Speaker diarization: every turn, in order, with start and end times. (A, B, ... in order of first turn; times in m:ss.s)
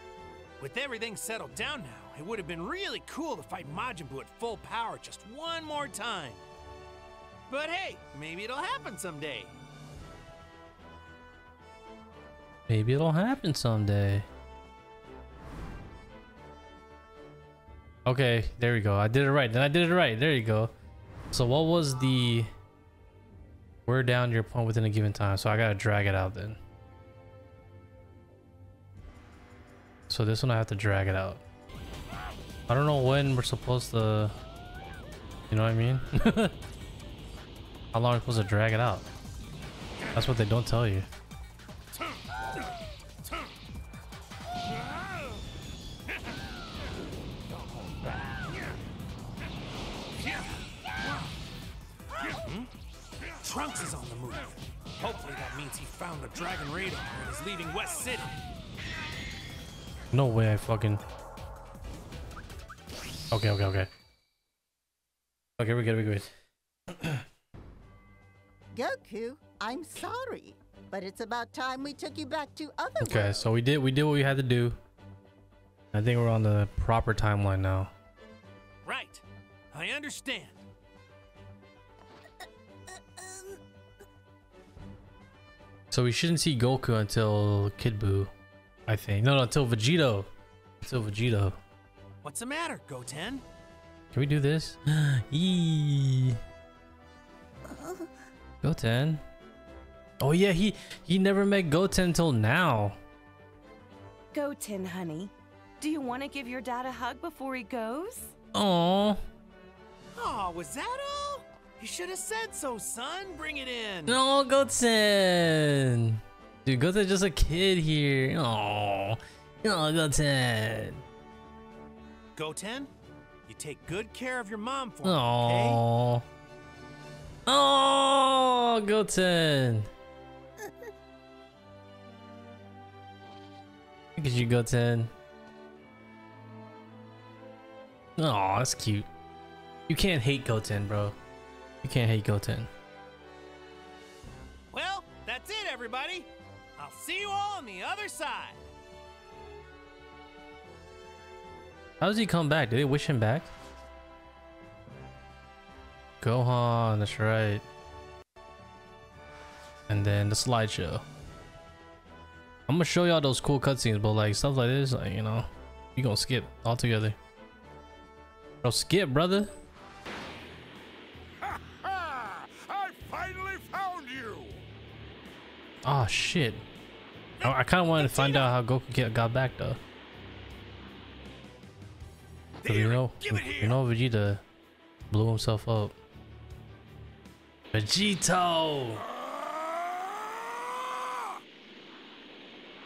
0:00.6-0:06.4 A
0:07.5-0:09.6 A
0:12.7-0:14.3 B
0:18.1-0:20.7 B
0:21.3-0:22.5 B
0:23.9-0:26.6 B
0:30.1-0:31.4 B
0:32.7-0:34.4 B
0:35.5-0:36.6 B
0:37.9-0:39.1 B
0:40.1-0:41.1 B
0:52.3-0:52.7 A
0:53.4-0:58.3 A
1:00.1-1:01.0 B
1:03.3-1:03.9 B
1:05.6-1:06.3 B
1:06.9-1:07.2 B
1:08.7-1:13.5 C
1:13.0-1:14.8 B
1:15.9-1:17.9 B
1:18.8-1:20.6 A
1:25.9-1:28.3 B
1:28.9-1:30.3 B
1:30.8-1:31.6 B
1:32.2-1:33.4 A
1:34.1-1:36.4 B
1:37.7-1:38.0 D
1:38.6-1:39.2 B
1:40.2-1:43.0 B
1:44.3-1:48.4 D
1:48.5-1:49.2 B
1:50.2-1:54.2 A
1:54.1-2:01.0 B
2:02.4-2:02.9 A
2:03.5-2:05.8 A
2:05.0-2:06.2 B
2:07.5-2:09.9 B
2:14.2-2:15.1 B
2:18.2-2:19.1 B
2:19.9-2:21.2 B
2:21.8-2:22.7 B
2:24.7-2:28.6 A
2:32.0-2:33.5 B
2:36.2-2:37.6 B
2:39.9-2:41.0 B
2:42.7-2:47.2 B
2:48.6-2:49.5 B
2:52.7-2:54.6 E
2:55.8-2:56.6 B
2:57.4-2:58.5 A
2:57.4-2:59.8 B
3:02.6-3:04.4 B
3:02.6-3:03.8 E
3:03.1-3:03.4 A
3:05.1-3:06.0 B
3:07.7-3:09.0 B